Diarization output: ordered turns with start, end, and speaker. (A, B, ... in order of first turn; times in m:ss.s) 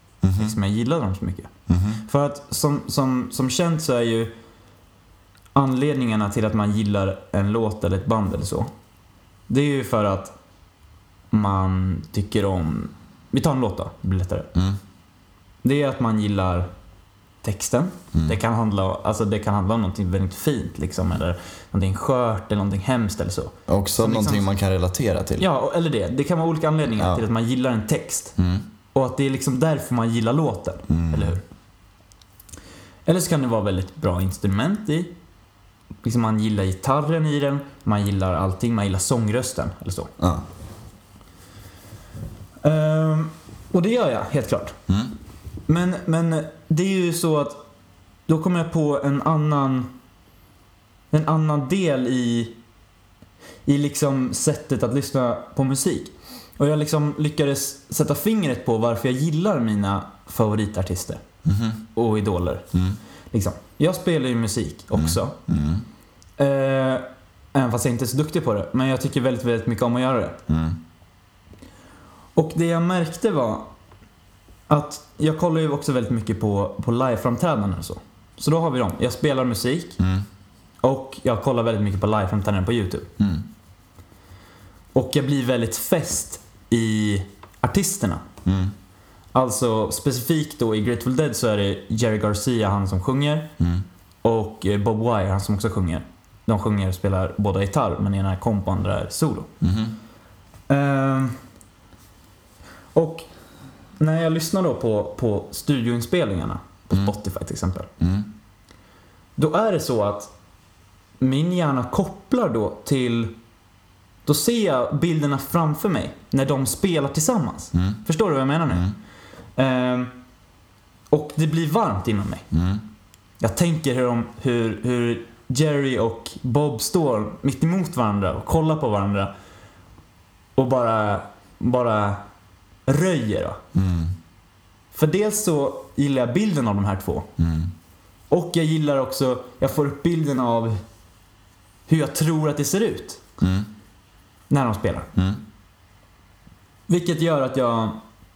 0:00.2-0:00.6 A
0:00.4-0:01.5 B
0:01.7-0:02.0 A
0:02.0-0:04.3 B
0:05.5-0:08.7 B
0:09.5-0:10.3 B
0:11.3-0:14.5 B
0:15.6-0:16.7 B
0:17.4-0:24.5 B
0:18.1-0:18.4 A
0:23.7-0:25.5 A
0:25.4-0:28.3 B
0:26.9-0:27.2 A
0:28.4-0:28.6 A
0:28.9-0:31.4 B
0:30.9-0:31.4 A
0:33.0-0:35.1 B
0:36.0-0:40.1 B
0:40.2-0:40.4 A
0:42.6-0:44.7 B
0:44.9-0:45.1 A
0:45.7-0:47.6 B
0:48.3-0:49.9 B
0:51.1-0:52.6 B
0:53.6-1:01.2 B
1:01.4-1:01.8 A
1:01.9-1:02.7 B
1:02.7-1:03.0 A
1:03.3-1:05.3 B
1:04.9-1:05.8 A
1:06.4-1:10.4 B
1:10.5-1:10.8 A
1:12.4-1:13.7 B
1:14.7-1:20.0 B
1:20.0-1:20.2 A
1:20.8-1:23.1 B
1:23.2-1:23.4 A
1:24.9-1:28.2 B
1:28.4-1:28.7 A
1:29.3-1:33.5 B
1:33.6-1:33.8 A
1:34.2-1:39.5 B
1:39.6-1:40.0 A
1:40.7-1:41.4 B
1:42.9-1:43.3 B
1:44.0-1:47.9 B
1:48.0-1:48.3 A
1:49.4-1:50.3 B
1:51.2-1:53.3 B
1:54.2-1:58.9 B
1:57.7-1:58.0 A
1:58.7-1:58.9 A
1:59.6-2:00.1 B
2:01.1-2:02.4 B
2:02.5-2:02.8 A
2:03.4-2:09.3 B
2:10.6-2:12.2 B
2:12.8-2:13.6 B
2:13.7-2:14.1 A
2:14.9-2:17.3 B
2:17.4-2:17.7 A
2:18.3-2:20.8 B
2:21.9-2:23.2 B
2:23.4-2:23.7 A
2:24.5-2:25.1 B
2:25.1-2:25.4 A
2:26.9-2:28.0 B